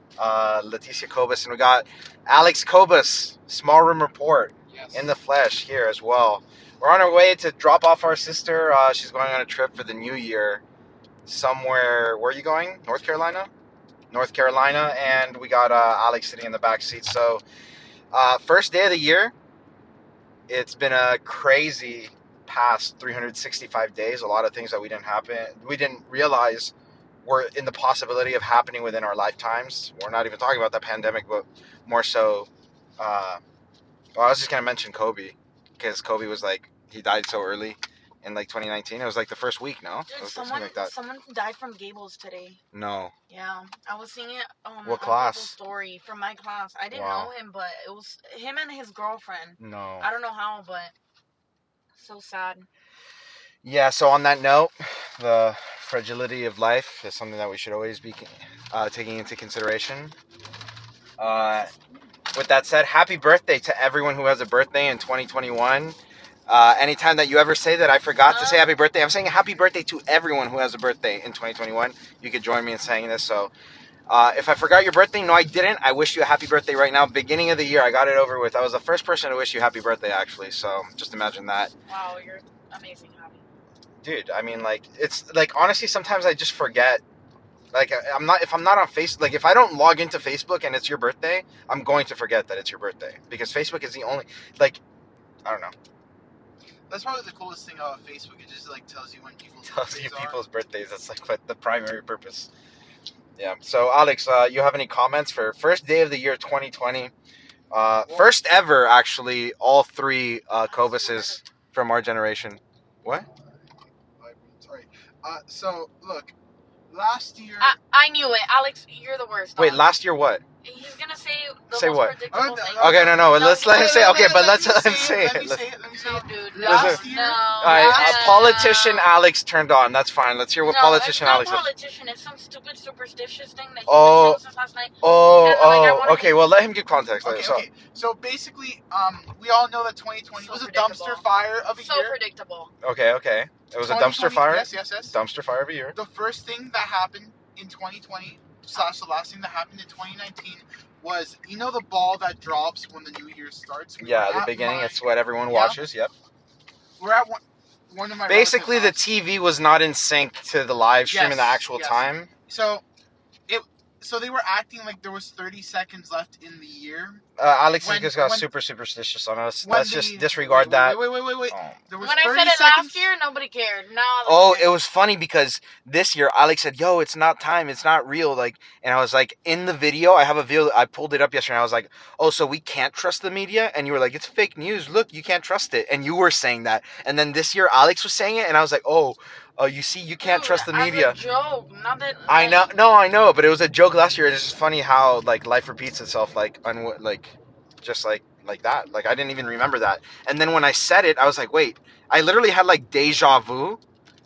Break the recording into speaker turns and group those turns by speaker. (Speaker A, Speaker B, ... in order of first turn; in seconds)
Speaker A: 0.2-10.6, 11.2-13.5, 14.1-17.4, 18.1-19.3, 20.5-26.7, 27.2-33.4, 34.2-40.9, 42.7-43.1, 44.9-45.5, 46.9-47.3, 49.6-50.1, 53.6-60.1, 61.2-61.7, 62.3-66.0, 66.5-73.5, 74.1-81.7, 84.0-87.0, 87.7-94.8, 95.5-95.7, 99.7-102.5, 103.4-107.1, 107.7-113.3, 119.6-120.4, 121.7-122.2, 122.8-125.7, 126.6-127.0, 127.6-131.7, 133.9-134.4, 135.0-137.7, 142.8-146.0, 154.0-156.1, 158.3-162.3, 167.4-171.8, 174.2-191.2, 192.3-203.8
Speaker B: 4.7-5.1, 96.9-100.4, 114.2-116.3, 116.9-117.8, 122.3-123.3, 124.0-128.5, 137.2-142.2, 143.8-145.2, 145.9-155.8, 157.0-159.0, 161.1-162.8, 163.5-167.2, 167.8-168.5, 169.6-173.1
Speaker C: 40.1-42.6, 43.3-50.9, 52.0-52.7, 68.3-68.7, 81.9-83.4, 110.7-111.4, 117.6-119.9, 120.6-124.5, 125.9-129.1, 130.6-136.5, 140.4-141.2, 141.8-142.7, 172.0-174.8, 190.2-192.7